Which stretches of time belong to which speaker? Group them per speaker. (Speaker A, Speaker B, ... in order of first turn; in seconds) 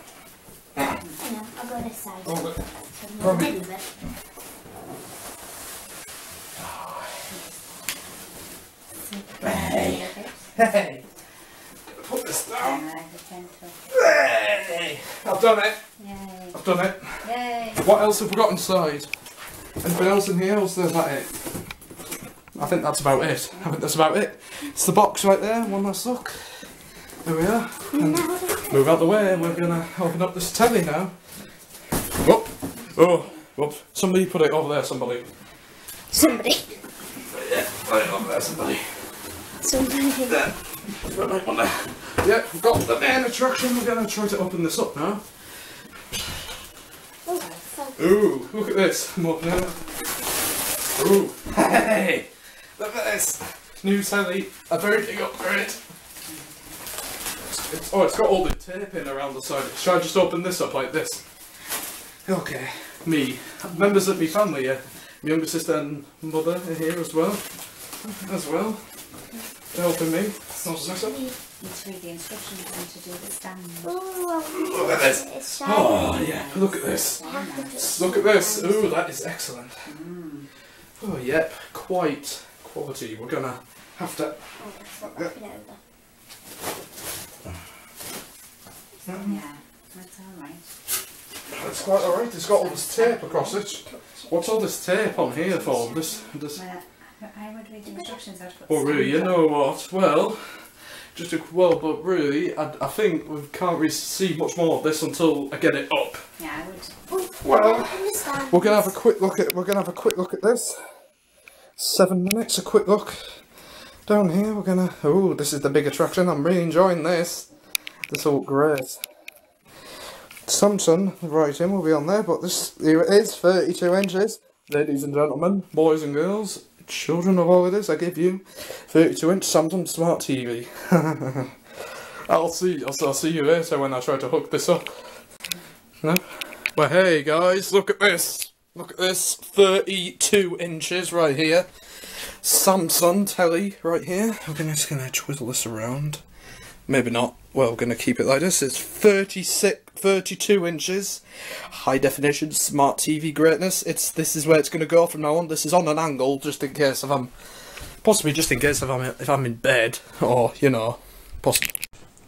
Speaker A: 1.2-2.5, 3.0-3.8, 27.9-28.7, 36.1-36.6, 39.6-40.4, 47.2-47.9, 71.0-71.3, 73.8-76.2, 77.2-78.9, 84.6-85.8, 107.1-108.9
Speaker B: 2.2-2.6, 3.2-3.6, 9.4-11.0, 11.9-12.8, 13.9-15.8, 16.5-19.1, 19.8-21.5, 22.5-26.7, 27.2-31.2, 32.1-35.3, 37.3-39.2, 40.3-45.4, 47.9-49.9, 50.9-55.8, 57.5-61.2, 62.2-67.5, 68.0-68.8, 69.7-71.2, 74.5-80.0, 81.0-84.5, 89.0-89.4, 91.5-96.6, 98.7-106.3, 107.4-110.9, 111.8-113.4, 114.0-117.5, 118.1-119.0, 120.5-131.6, 132.3-135.2, 136.0-146.2, 146.9-161.7
Speaker C: 9.0-10.4, 12.6-13.8, 16.0-16.6, 17.2-17.9, 23.3-23.7, 56.2-56.7, 70.6-71.0, 71.5-74.0, 76.2-78.3, 79.8-80.5, 85.0-85.3, 89.1-90.6, 92.4-93.9, 95.4-99.4, 106.4-106.9